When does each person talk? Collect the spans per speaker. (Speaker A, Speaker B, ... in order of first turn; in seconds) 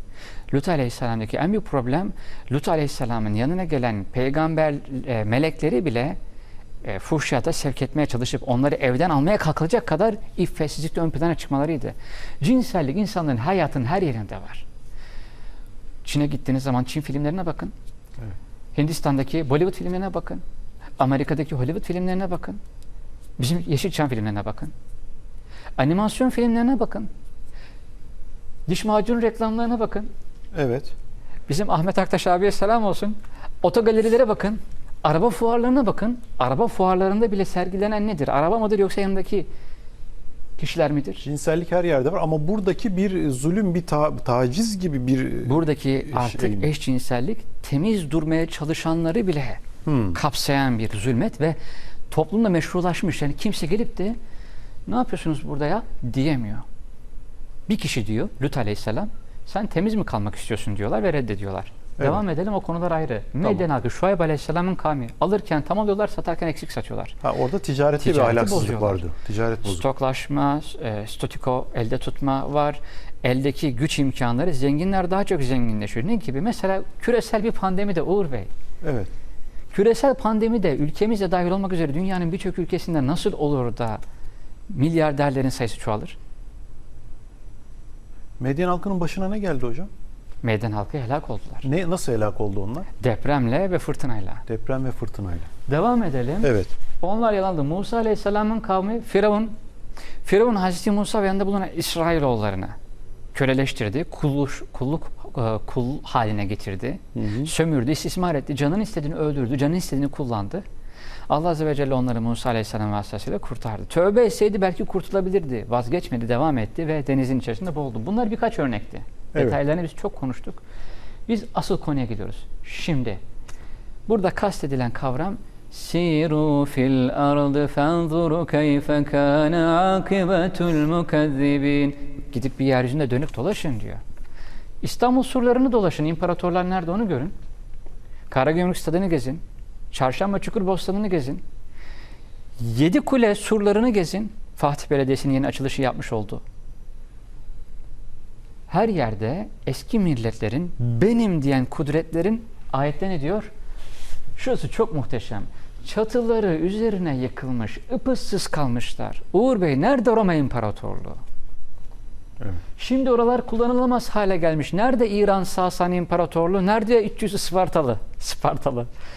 Speaker A: 0.5-6.2, 6.8-14.7, 16.1-17.7, 18.8-20.4, 21.0-22.6, 23.4-24.7, 25.8-27.1, 28.7-30.1, 31.5-39.5, 40.6-41.2, 45.4-49.6, 50.1-51.6, 52.1-54.2, 54.9-56.6, 57.7-67.2, 68.0-69.0, 69.7-78.5, 79.7-84.0, 84.7-86.2, 90.4-91.7, 93.0-94.4, 95.7-99.5, 100.2-102.8, 103.3-110.6, 111.3-120.6, 121.3-123.2, 124.1-134.0, 134.8-137.3, 138.3-141.4, 142.6-146.4, 148.7-153.5, 154.4-161.2, 162.8-168.9
Speaker B: 30.5-30.9, 41.2-46.7, 49.9-50.2, 62.0-62.2, 63.4-63.7, 67.2-69.9, 78.8-79.1, 88.4-89.9, 91.6-92.9, 94.5-95.5, 96.4-96.7, 107.2-107.5, 119.3-119.6